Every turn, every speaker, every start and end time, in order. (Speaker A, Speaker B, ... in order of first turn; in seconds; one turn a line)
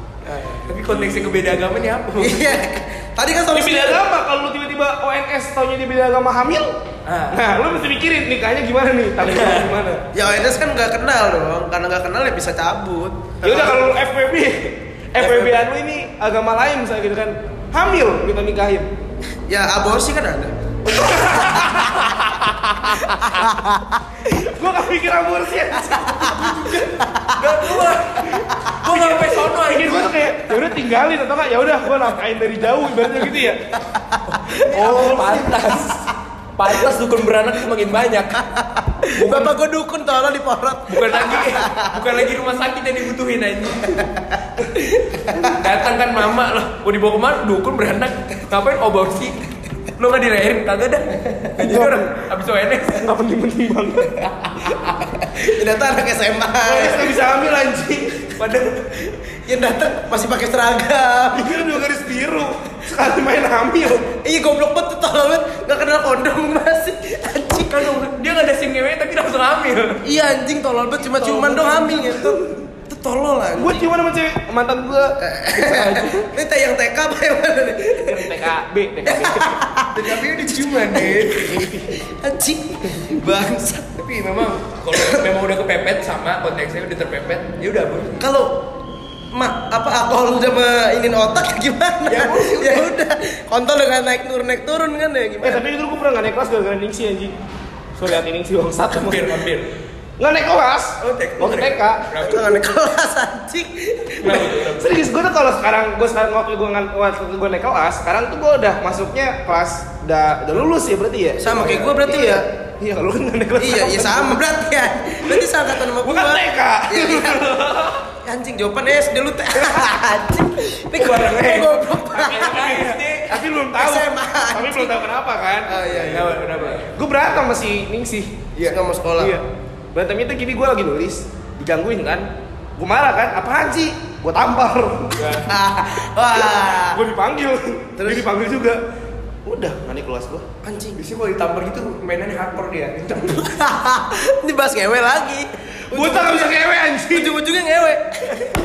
Speaker A: 0.2-1.1
Speaker B: 0.6-2.6
Speaker A: 2.2-4.0
Speaker C: 3.5-6.8
Speaker B: 7.0-7.4
Speaker C: 7.3-10.0
Speaker B: 9.2-9.7
Speaker A: 10.1-13.8
Speaker C: 13.4-18.9
Speaker A: 15.2-15.5
Speaker A: 19.5-20.5
Speaker C: 20.9-22.1
Speaker B: 21.8-23.4
Speaker A: 23.3-24.0
Speaker C: 24.2-26.5
Speaker A: 25.9-28.4
Speaker B: 26.2-30.5
Speaker C: 28.9-33.6
Speaker A: 33.8-35.2
Speaker B: 34.3-38.4
Speaker C: 34.6-35.7
Speaker A: 38.5-42.1
Speaker B: 39.0-39.5
Speaker B: 40.9-44.0
Speaker A: 43.9-44.3
Speaker A: 45.1-45.5
Speaker B: 45.3-49.4
Speaker B: 50.0-53.1
Speaker C: 51.6-52.1
Speaker C: 52.9-54.3
Speaker A: 55.1-57.2
Speaker C: 56.6-58.3
Speaker B: 58.4-59.1
Speaker A: 59.4-61.9
Speaker C: 61.3-64.1
Speaker A: 64.1-67.9
Speaker B: 67.7-70.0
Speaker A: 70.0-73.9
Speaker C: 71.1-72.7
Speaker C: 73.5-76.2
Speaker A: 75.2-78.3
Speaker C: 77.9-79.6
Speaker A: 79.0-84.0
Speaker B: 79.9-81.6
Speaker C: 81.4-81.9
Speaker B: 84.0-88.2
Speaker A: 84.9-85.2
Speaker A: 88.2-88.7
Speaker A: 89.3-95.7
Speaker B: 92.1-92.9
Speaker C: 95.4-97.3
Speaker C: 97.9-99.5
Speaker B: 98.9-99.7
Speaker C: 100.2-102.1
Speaker B: 101.0-102.5
Speaker A: 102.2-104.4
Speaker B: 104.2-105.0
Speaker C: 104.2-114.4
Speaker A: 111.4-112.4
Speaker A: 113.6-117.5
Speaker C: 115.9-118.0
Speaker A: 118.2-122.8
Speaker B: 121.0-123.4
Speaker C: 121.0-126.1
Speaker A: 123.7-124.9
Speaker A: 125.7-126.5
Speaker B: 126.1-126.9
Speaker C: 126.8-128.5
Speaker A: 128.6-129.4
Speaker C: 129.2-135.2
Speaker B: 135.2-135.5
Speaker A: 135.5-137.0
Speaker C: 136.7-138.8
Speaker A: 138.0-138.3
Speaker C: 139.4-140.5
Speaker A: 140.6-141.0
Speaker B: 141.0-143.5
Speaker A: 143.4-148.4
Speaker C: 145.9-147.3